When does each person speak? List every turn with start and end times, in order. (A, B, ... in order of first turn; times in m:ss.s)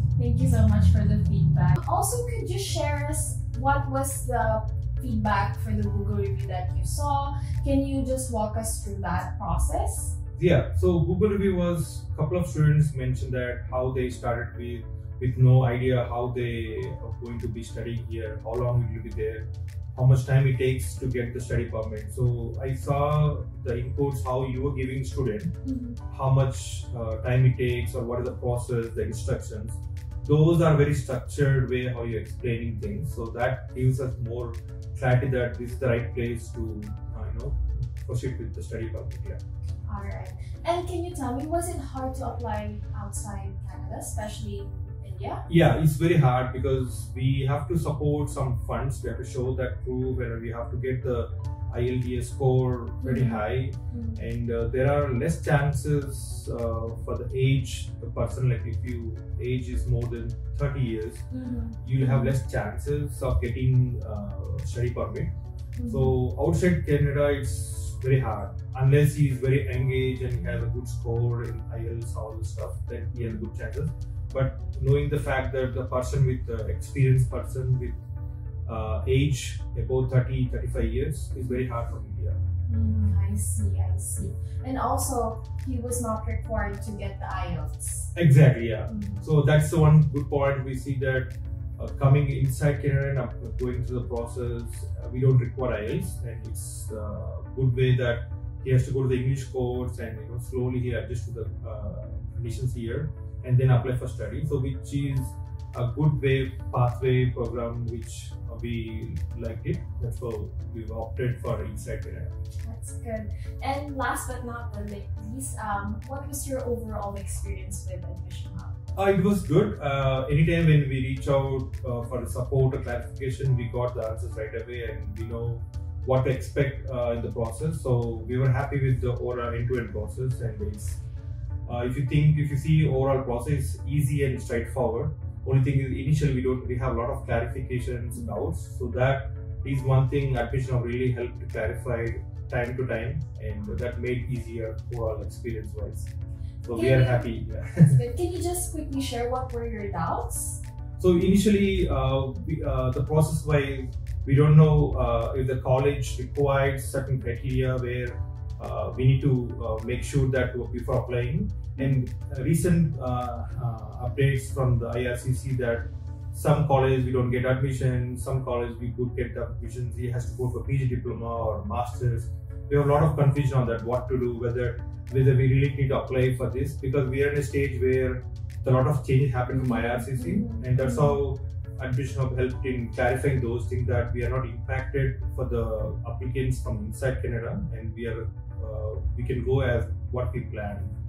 0:00.2-0:10.2 A
0:10.4-0:25.5 B
0:25.6-0:26.0 A
0:26.1-0:39.4 B
0:39.9-0:45.4 A
0:45.5-1:01.3 B
0:53.0-0:54.2 A
1:01.3-1:02.3 A
1:01.8-1:05.3 B
1:05.8-1:06.1 A
1:05.9-1:18.0 B
1:13.1-1:13.4 A
1:18.6-1:22.4 B
1:22.7-1:28.1 A
1:28.1-1:52.3 B
1:28.9-1:29.3 A
1:52.6-1:58.7 A
1:59.0-2:11.0 B
2:11.6-2:26.1 B
2:26.6-2:28.0 B
2:26.7-2:27.3 A
2:27.8-2:30.6 A
2:31.0-3:10.9 B
2:41.8-2:42.1 A
2:59.5-3:01.2 A